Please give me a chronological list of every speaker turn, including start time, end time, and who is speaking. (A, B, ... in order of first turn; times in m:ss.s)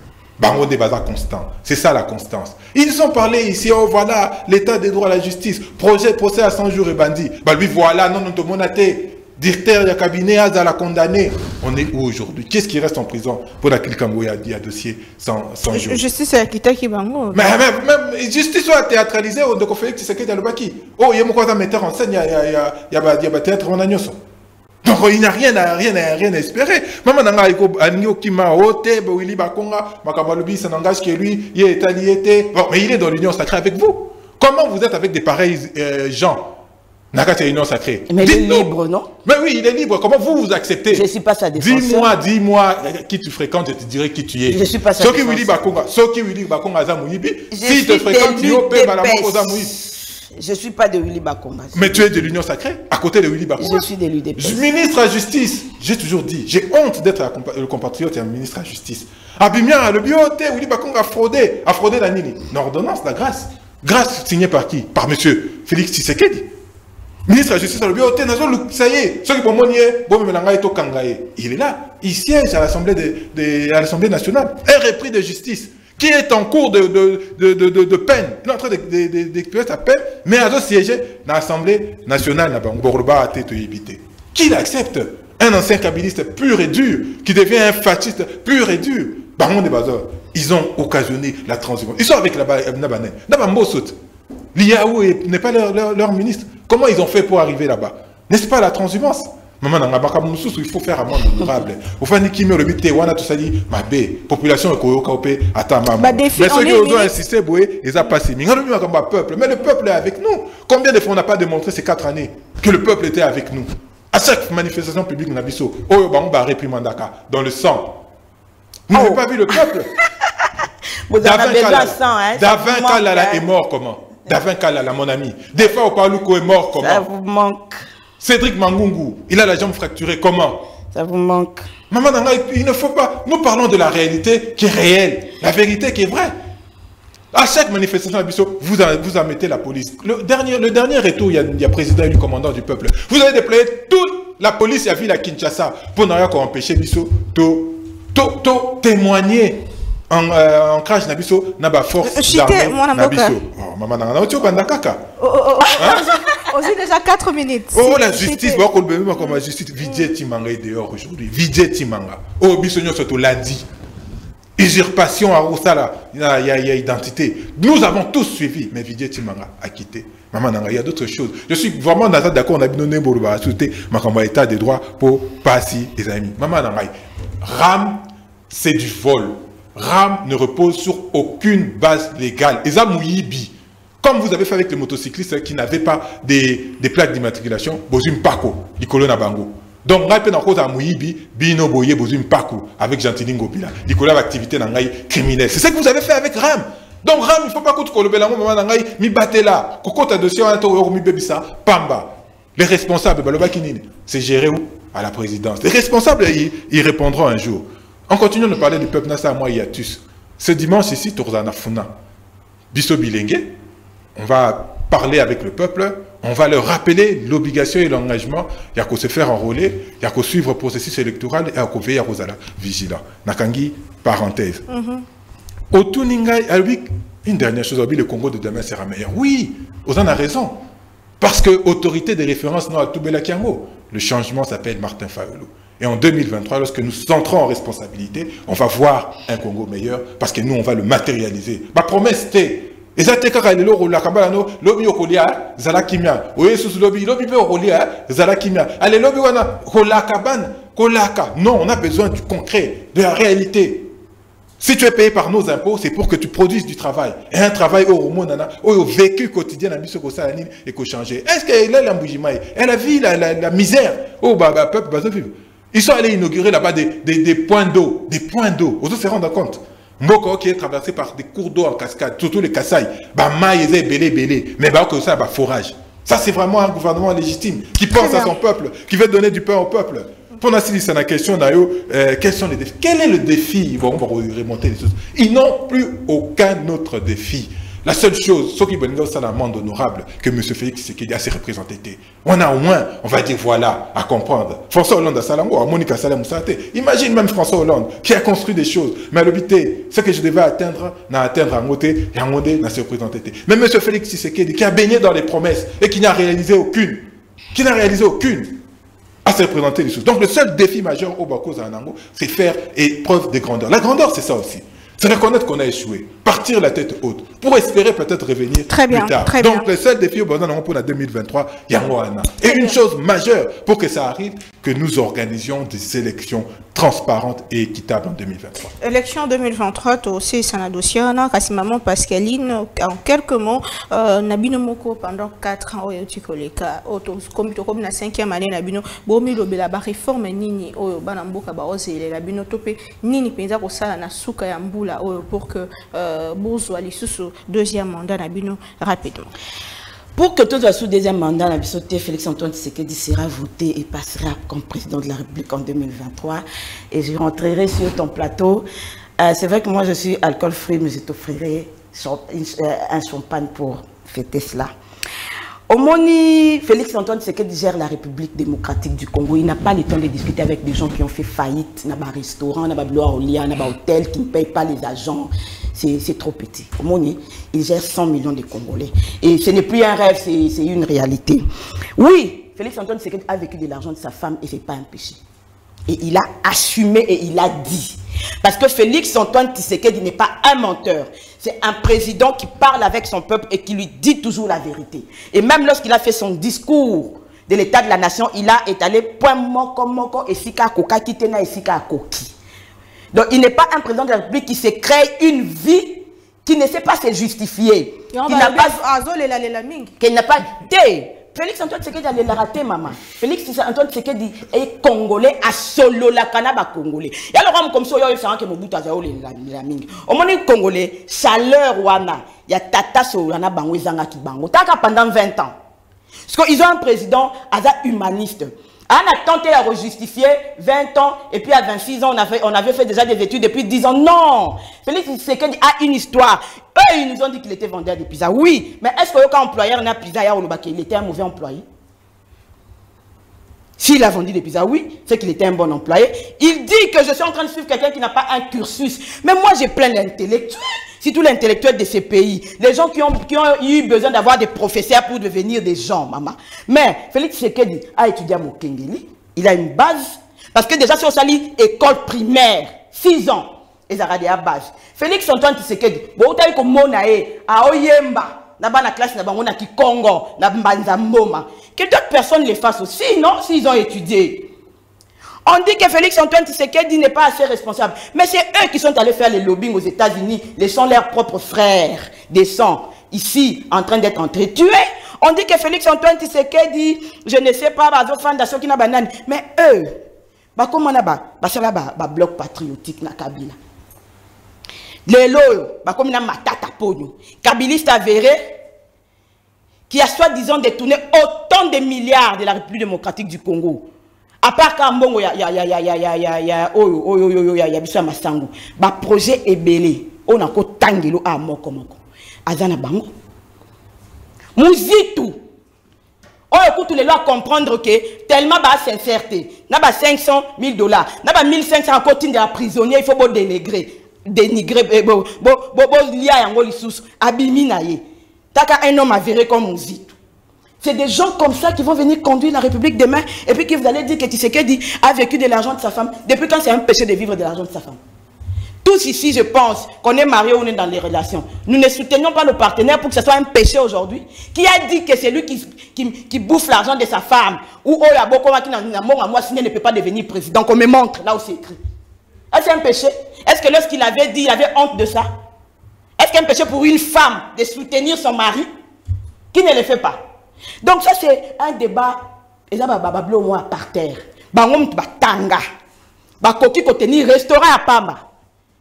0:00.4-0:16.0 A
0:15.7-0:17.6 B
0:17.3-0:24.2 A
0:24.8-0:36.6 A
0:37.1-0:38.7 A
0:38.1-0:39.1 C
0:39.2-0:41.1 A
0:40.9-0:42.1 C
0:41.6-0:49.7 A
0:44.5-0:45.6 C
0:47.5-0:52.2 C
0:51.7-0:53.9 A
0:53.6-0:54.6 C
0:54.4-1:06.5 A
1:07.3-1:34.0 A
1:34.6-1:58.0 A
1:46.0-1:47.1 C
1:58.9-1:59.9 A
1:58.9-2:00.5 C
2:01.1-2:03.4 C
2:01.2-2:07.0 A
2:06.8-2:07.8 C
2:08.2-2:10.7 A
2:10.9-2:11.7 C
2:11.9-2:16.3 A
2:17.3-2:35.0 A
2:32.0-2:33.4 B
2:35.2-2:38.6 B
2:35.7-2:36.0 A
2:37.7-2:43.6 A
2:39.2-2:40.1 B
2:44.6-3:31.9 A
3:32.7-3:33.5 A
3:34.2-3:44.6 A
3:44.7-3:45.0 B
3:45.7-3:50.6 A
3:51.2-4:13.9 A
4:14.6-5:08.6 A
4:38.0-4:38.3 B
5:09.2-5:28.7 A
5:18.7-5:19.7 B
5:22.5-5:22.8 B
5:28.8-5:49.3 B
5:50.2-5:58.7 C
5:59.2-6:04.7 C
6:05.7-6:21.4 C
6:22.0-6:25.2 C
6:25.9-6:42.3 C
6:43.1-6:48.8 C
6:48.1-6:49.9 B
6:50.0-7:05.5 C
7:06.3-7:21.6 C
7:23.8-7:54.5 C
7:55.4-8:10.0 C
8:10.6-8:13.6 C
8:15.1-8:18.4 C
8:19.9-8:23.9 C
8:24.4-8:33.1 C
8:34.6-8:35.4 C
8:36.5-8:48.0 C
8:48.5-8:50.2 C
8:50.8-8:58.0 C
8:58.8-9:11.8 C
9:12.5-9:15.3 C
9:16.2-9:18.7 C
9:19.5-9:20.2 C
9:20.8-9:25.6 C
9:26.4-9:28.2 C